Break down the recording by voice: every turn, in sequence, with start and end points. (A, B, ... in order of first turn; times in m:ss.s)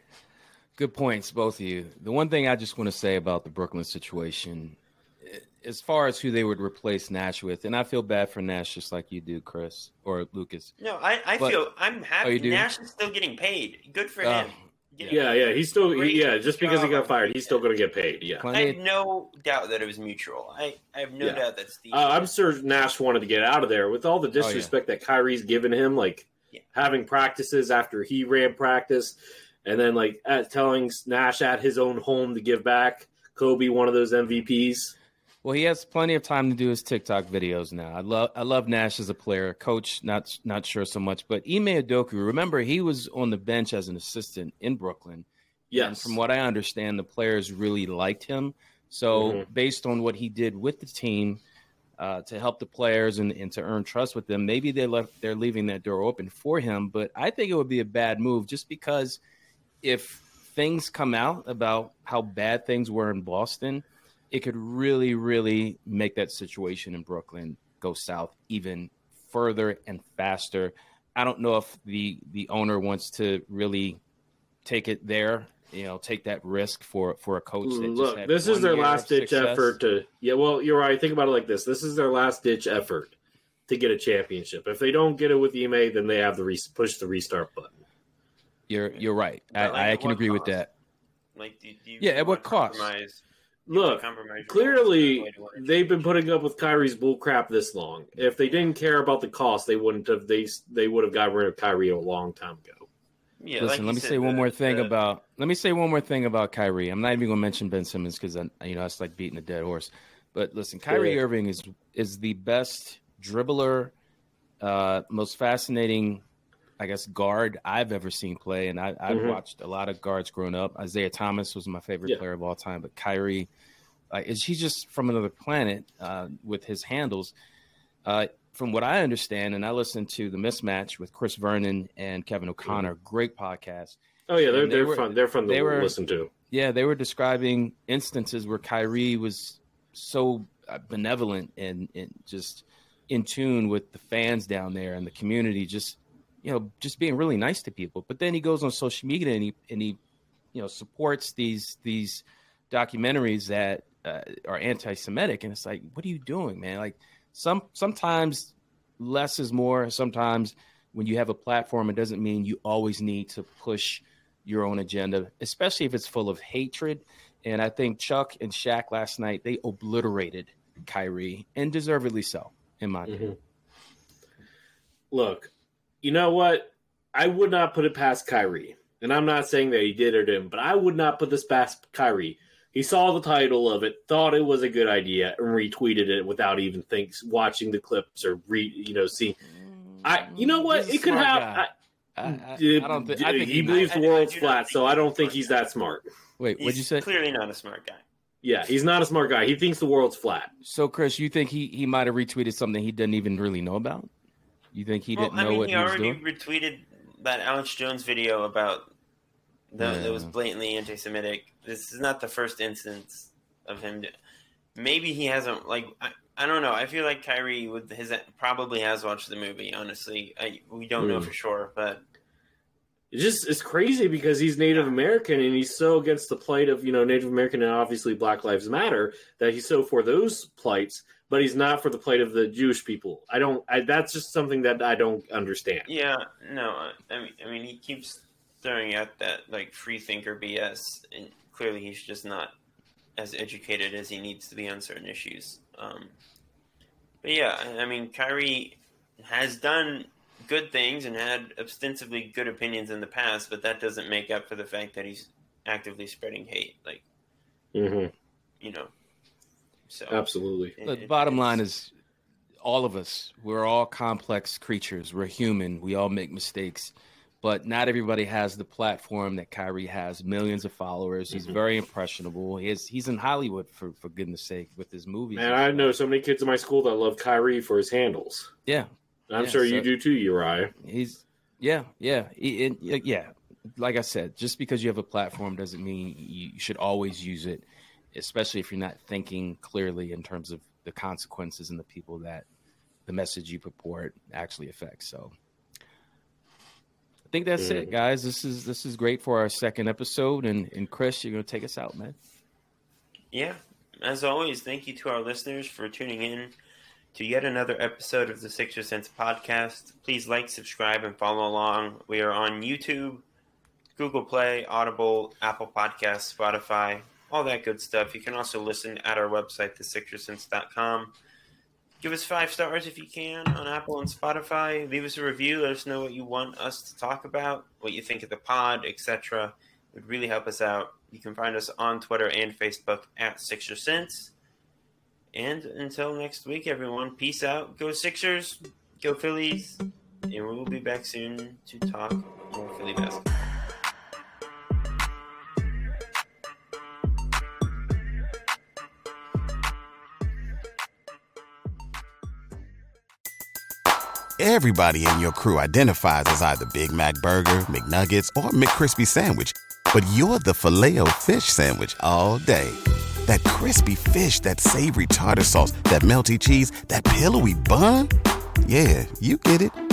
0:00.8-0:10.7 A
0:10.8-0:15.3 B
0:12.2-0:12.6 A
0:14.2-0:15.2 A
0:15.1-0:18.5 C
0:15.8-0:17.6 B
0:18.4-0:18.8 A
0:18.5-0:22.3 B
0:21.2-0:34.9 C
0:24.4-0:24.7 A
0:35.4-0:51.4 A
0:45.7-0:46.2 C
0:49.1-0:49.4 C
0:52.0-0:59.2 A
0:59.8-1:14.0 A
1:14.6-1:19.8 A
1:17.6-1:23.1 C
1:23.7-1:27.8 C
1:28.7-1:30.7 A
1:29.5-1:30.6 B
1:31.4-1:36.1 B
1:32.0-1:32.9 A
1:33.7-1:42.9 C
1:43.4-1:44.9 B
1:43.6-1:53.9 A
1:50.9-1:51.2 C
1:54.6-1:56.2 A
1:56.8-2:03.5 A
1:59.1-1:59.4 C
2:04.1-2:07.3 A
2:08.0-2:15.9 A
2:14.3-2:16.3 C
2:16.5-2:30.0 A
2:30.5-2:53.2 A
2:53.1-2:53.4 C
2:55.1-2:55.5 C
2:56.0-3:09.4 C
3:09.4-3:14.0 A
3:10.0-3:11.7 C
3:12.2-3:16.0 C
3:13.7-3:15.6 B
3:16.4-3:17.0 A
3:16.6-3:18.0 B
3:18.4-3:20.5 C
3:20.6-3:24.1 A
3:24.7-3:26.2 A
3:25.1-3:28.9 B
3:29.7-3:34.1 B
3:29.8-3:30.3 A
3:34.7-3:42.0 B
3:41.0-3:41.3 C
3:43.1-3:55.9 C
3:55.9-4:02.5 B
4:03.2-4:06.1 B
4:07.2-4:17.0 B
4:17.7-4:18.1 C
4:18.6-4:18.9 B
4:19.9-4:21.6 B
4:20.1-4:20.7 C
4:20.8-4:21.9 A
4:22.6-4:35.9 A
4:31.3-4:31.6 C
4:35.4-4:38.5 C
4:38.6-4:39.9 A
4:39.3-4:40.7 C
4:40.8-4:52.4 A
4:53.0-4:55.3 A
4:57.3-5:02.2 A
4:57.6-4:57.9 C
5:03.3-5:06.5 B
5:07.1-5:13.2 B
5:14.0-5:21.1 B
5:22.0-5:34.3 B
5:35.3-5:43.4 B
5:54.4-6:08.1 D
6:08.6-6:09.8 D